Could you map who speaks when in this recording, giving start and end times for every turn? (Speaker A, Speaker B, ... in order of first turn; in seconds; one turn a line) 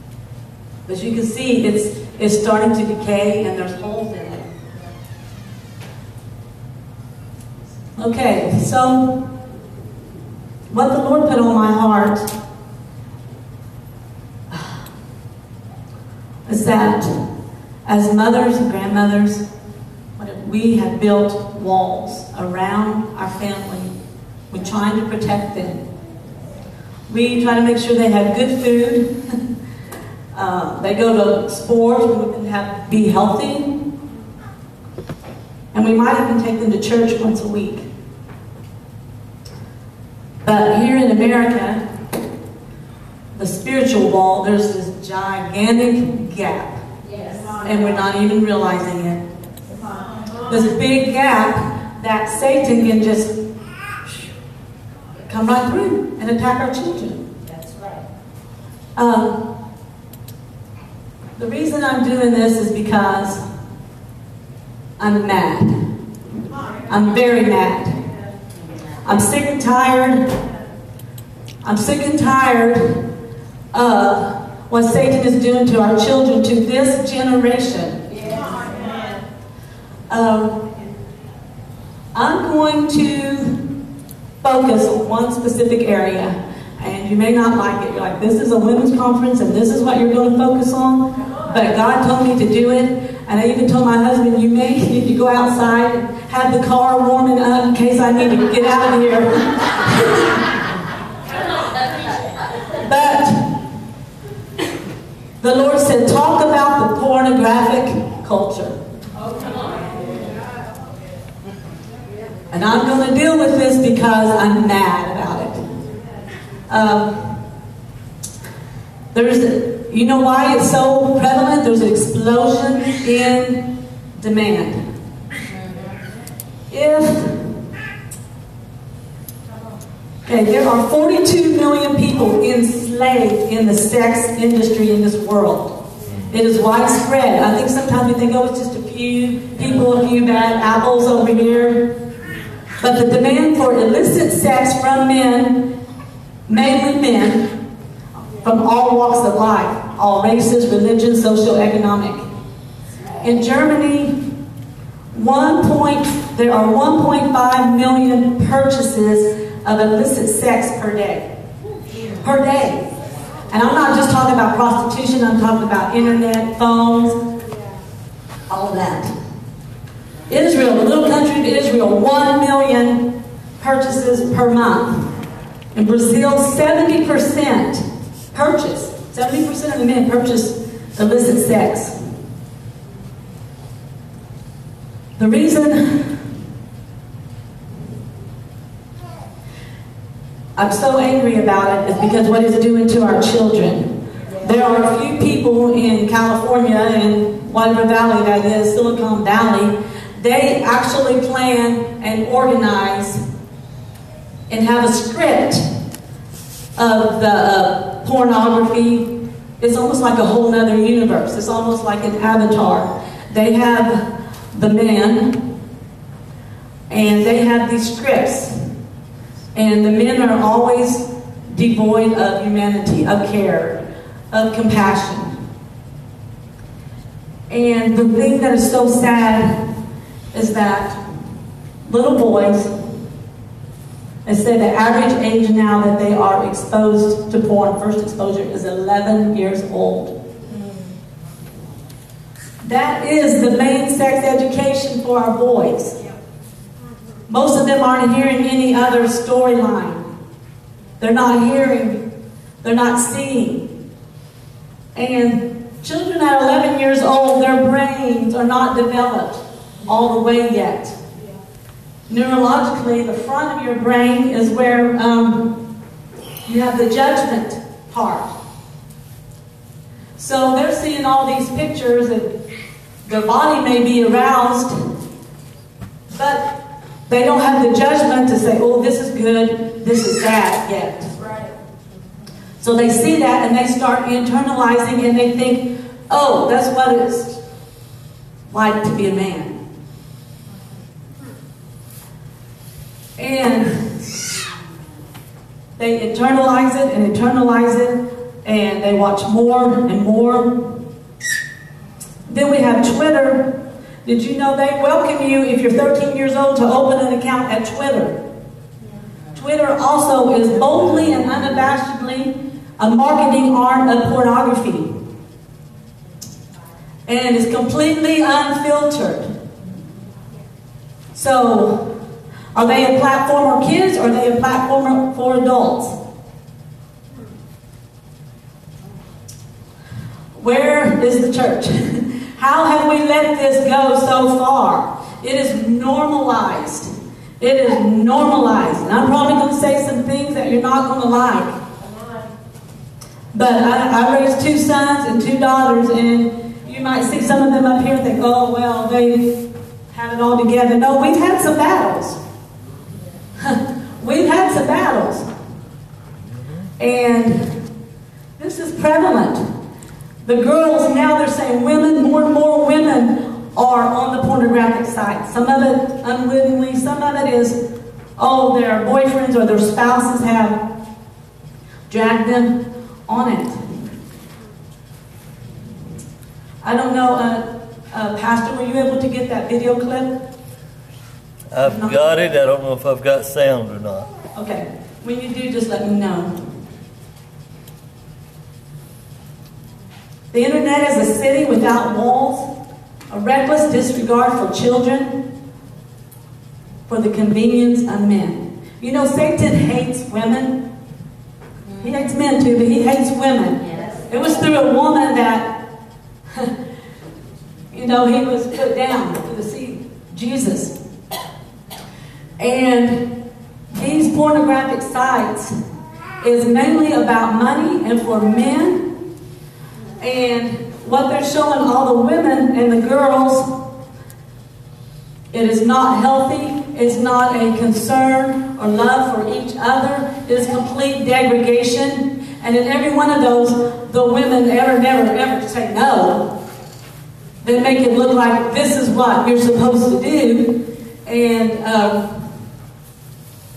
Speaker A: 0.9-4.5
Speaker A: 8.0-9.3
Speaker A: 10.7-12.3
Speaker A: 14.5-14.8
Speaker A: 16.4-17.2
Speaker A: 17.8-19.4
Speaker A: 20.2-23.9
Speaker A: 24.5-25.8
Speaker A: 27.1-29.4
Speaker A: 30.3-33.8
Speaker A: 35.7-37.9
Speaker A: 40.4-41.8
Speaker A: 43.3-46.8
Speaker B: 47.0-47.6
Speaker A: 47.6-49.2
Speaker B: 49.7-50.4
Speaker A: 50.5-53.4
Speaker A: 55.3-57.3
Speaker B: 57.4-58.1
Speaker A: 59.0-59.5
Speaker A: 61.4-63.4
Speaker A: 65.0-65.9
Speaker A: 66.9-68.0
Speaker B: 68.5-68.9
Speaker A: 69.0-70.4
Speaker A: 71.6-73.1
Speaker A: 73.7-78.3
Speaker B: 78.1-78.9
Speaker A: 80.1-80.6
Speaker A: 82.1-83.7
Speaker A: 84.4-100.5
Speaker A: 102.8-103.6
Speaker A: 105.4-108.8
Speaker B: 109.2-109.9
Speaker A: 112.5-115.6
Speaker A: 116.7-117.3
Speaker A: 119.1-124.8
Speaker B: 125.5-126.0
Speaker A: 126.7-127.5
Speaker A: 130.2-135.8
Speaker C: 136.0-136.3
Speaker A: 136.3-142.0
Speaker A: 142.8-145.8
Speaker A: 146.5-147.5
Speaker A: 148.4-152.3
Speaker A: 153.2-154.3
Speaker A: 155.1-161.3
Speaker A: 162.2-162.9
Speaker A: 163.5-167.2
Speaker A: 168.5-169.1
Speaker A: 170.3-175.1
Speaker A: 175.7-181.9
Speaker A: 185.2-186.2
Speaker A: 190.6-203.2
Speaker A: 204.5-205.7
Speaker A: 206.8-215.4
Speaker A: 216.9-218.6
Speaker A: 219.5-225.3
Speaker A: 227.5-229.7
Speaker A: 230.3-231.0
Speaker A: 231.8-232.7
Speaker A: 234.2-240.2
Speaker A: 242.6-245.9
Speaker A: 247.3-250.1
Speaker A: 251.0-252.0
Speaker A: 252.6-253.7
Speaker A: 254.9-260.9
Speaker A: 262.1-265.6
Speaker A: 266.4-268.3
Speaker A: 270.2-272.3
Speaker A: 273.0-274.7
Speaker A: 276.1-276.5
Speaker A: 277.1-281.1
Speaker B: 281.2-281.5
Speaker A: 282.6-287.4
Speaker A: 288.5-289.6
Speaker A: 293.2-294.0
Speaker A: 295.8-300.8
Speaker A: 302.3-308.2
Speaker A: 309.3-314.9
Speaker A: 317.1-319.3
Speaker A: 321.1-321.9
Speaker A: 322.5-325.9
Speaker A: 330.4-341.6
Speaker B: 341.8-342.3
Speaker A: 343.3-352.2
Speaker A: 353.4-355.3
Speaker A: 356.8-357.6
Speaker A: 358.4-359.4
Speaker A: 360.2-367.6
Speaker A: 368.2-370.6
Speaker A: 371.9-373.6
Speaker A: 376.6-380.2
Speaker C: 381.5-384.1
Speaker A: 381.6-382.3
Speaker A: 384.3-386.4
Speaker A: 390.3-392.5
Speaker A: 393.1-395.2
Speaker A: 396.9-400.6
Speaker A: 401.8-405.6
Speaker B: 403.6-404.0
Speaker A: 407.7-410.7
Speaker A: 412.4-413.1
Speaker A: 413.7-415.5
Speaker A: 416.2-418.9
Speaker A: 420.0-423.5
Speaker A: 425.3-436.3
Speaker A: 437.4-442.3